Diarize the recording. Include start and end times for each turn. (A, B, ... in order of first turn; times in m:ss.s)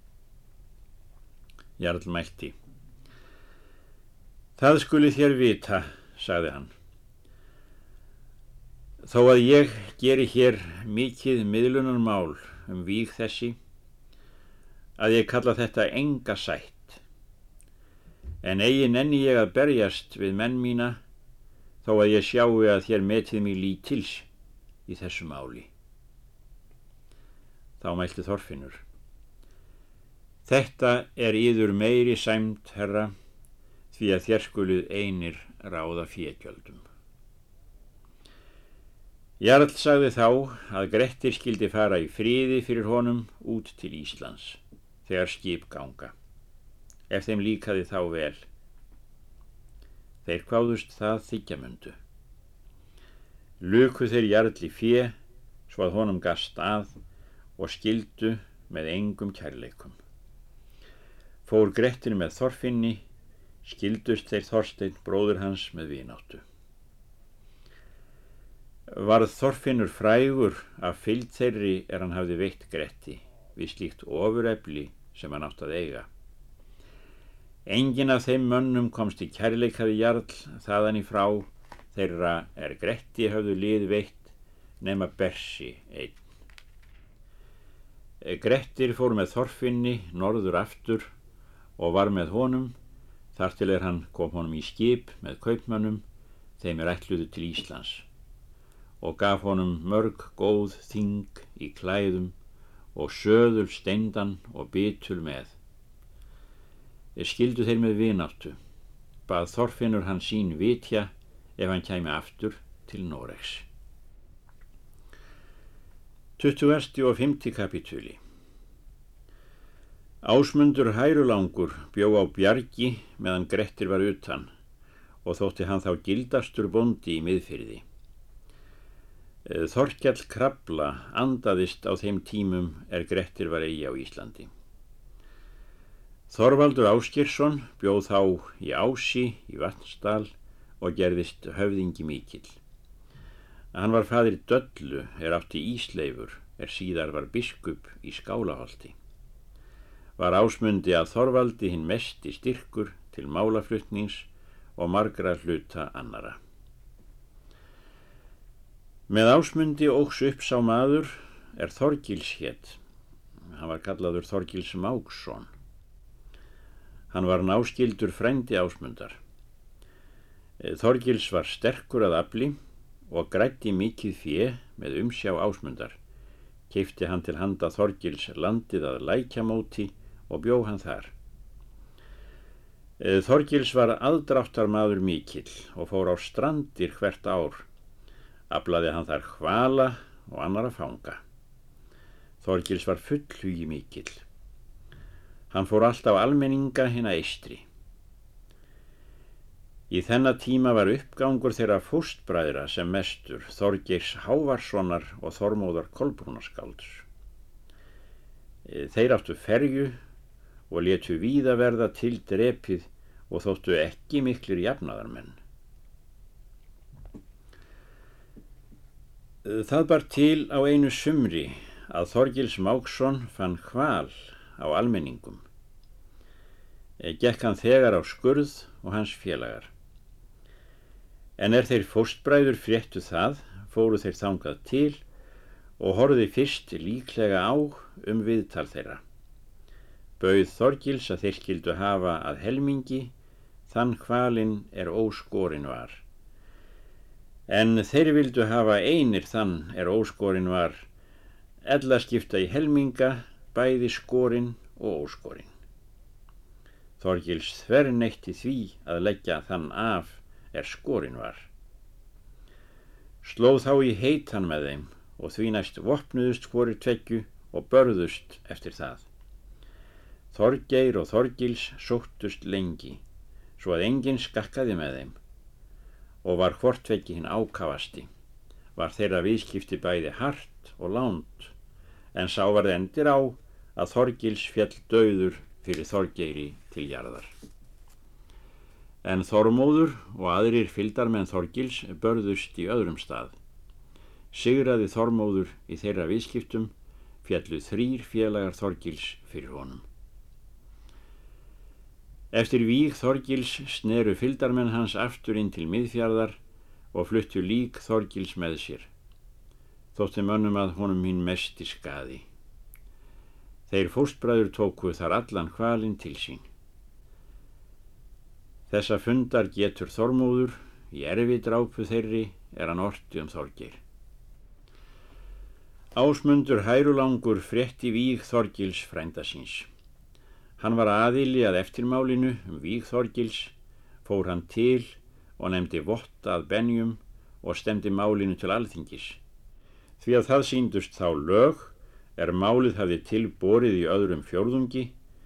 0:01.8-0:02.5 A
0:04.6-0:06.7 A
0:09.0-0:13.6 A
0:15.0-0:17.0 A
0:18.4-0:21.0 A
0:21.8-0:24.3 A
0:24.9-0:25.7 A
0:27.8-0:28.8 A
0:30.4-0:33.1 A
0:33.9-0:36.8 A
0:39.4-0:46.1 A
0:47.1-0:48.4 A
0:50.2-0:52.0 A
0:53.6-0:55.1 A
0:55.7-0:57.0 A
0:57.6-1:00.0 A
1:01.4-1:03.0 A
1:03.6-1:06.4 A
1:08.9-1:16.1 A
1:17.6-1:26.2 A
1:28.2-1:31.1 A
1:31.8-1:32.7 A
1:33.4-1:36.0 A
1:36.6-1:38.0 A
1:39.0-1:42.4 A
1:42.9-1:45.6 A
1:47.2-1:48.6 A
1:49.3-1:53.6 A
1:56.4-1:58.2 A
2:00.2-2:04.5 A
2:05.2-2:07.8 A
2:09.4-2:14.5 A
2:16.3-2:22.6 A
2:23.7-2:28.9 A
2:30.2-2:36.4 A
2:39.1-2:42.8 A
2:43.5-2:45.5 A
2:47.1-2:49.2 A
2:50.6-2:52.6 A
2:53.1-2:56.0 A
2:56.7-3:01.1 A
3:03.0-3:07.7 A
3:08.5-3:11.2 A
3:12.4-3:14.2 A
3:15.5-3:17.6 A
3:19.9-3:27.0 A
3:28.6-3:30.0 A
3:30.7-3:35.4 A
3:39.4-3:45.4 A
3:47.0-3:49.7 A
3:51.4-3:55.0 A
3:55.8-3:59.0 A
4:00.2-4:03.1 A
4:03.7-4:06.0 A
4:07.5-4:10.9 A
4:11.6-4:15.5 A
4:17.0-4:21.5 A
4:23.2-4:29.1 A
4:30.3-4:33.0 A
4:33.6-4:35.2 A
4:36.2-4:38.1 A
4:38.8-4:41.5 A
4:42.1-4:47.3 A
4:49.0-4:53.4 A
4:54.3-4:56.7 A
4:57.2-4:59.8 A
5:02.3-5:06.4 A
5:06.9-5:08.9 A
5:09.9-5:12.2 A
5:13.7-5:16.4 A
5:18.7-5:23.8 A
5:25.9-5:29.7 A
5:30.6-5:33.5 A
5:34.0-5:39.2 A
5:40.0-5:44.9 A